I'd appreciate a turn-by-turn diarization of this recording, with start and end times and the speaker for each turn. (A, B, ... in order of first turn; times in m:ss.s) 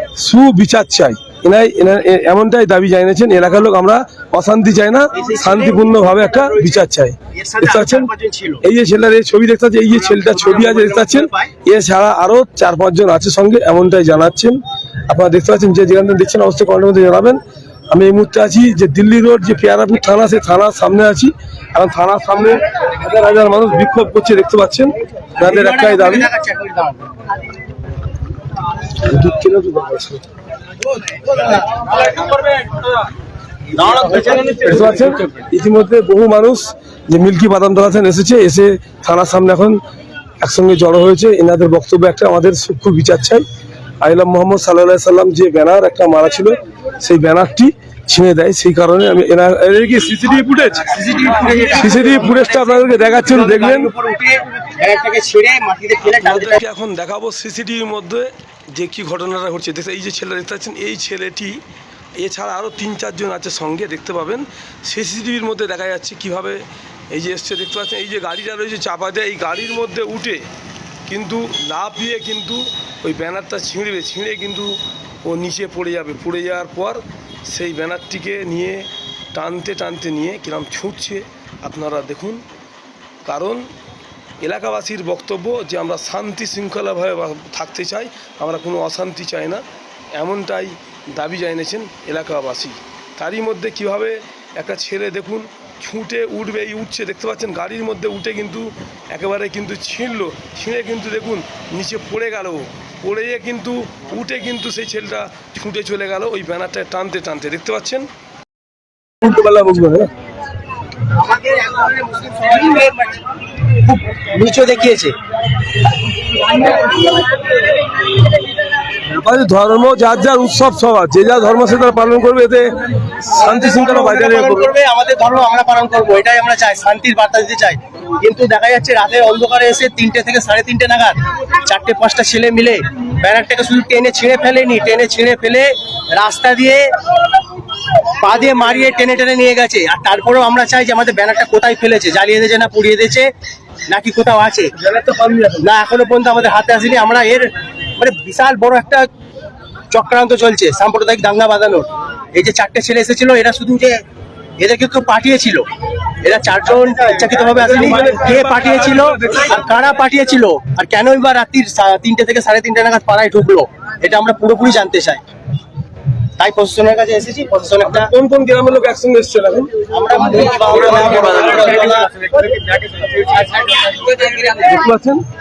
0:00.2-0:08.1 A
0:05.1-0:06.8 B
0:07.3-0:08.6 B
0:08.6-0:26.3 A
0:10.1-0:11.5 B
0:25.4-0:27.1 B
0:29.0-0:30.2 A
0:33.8-0:34.6 B
0:34.6-0:39.8 A
0:40.4-0:43.4 A
0:44.0-0:51.0 A
0:50.9-0:56.6 B
0:51.8-0:53.9 A
0:56.2-1:01.6 A
1:02.2-1:10.5 A
1:11.1-1:22.4 A
1:23.3-1:23.7 A
1:24.4-1:48.1 A
1:49.2-1:50.1 A
1:51.2-1:53.2 B
1:53.8-1:55.1 B
1:59.1-2:04.7 A
2:03.4-2:16.9 B
2:18.2-2:23.3 B
2:23.9-2:24.7 B
2:24.8-2:25.6 A
2:25.6-2:29.1 B
2:29.9-2:34.0 B
2:34.6-2:35.6 B
2:36.2-2:45.2 B
2:37.4-2:39.5 A
2:46.4-2:48.1 B
2:47.9-2:49.8 A
2:49.9-2:52.4 B
2:54.2-2:55.2 A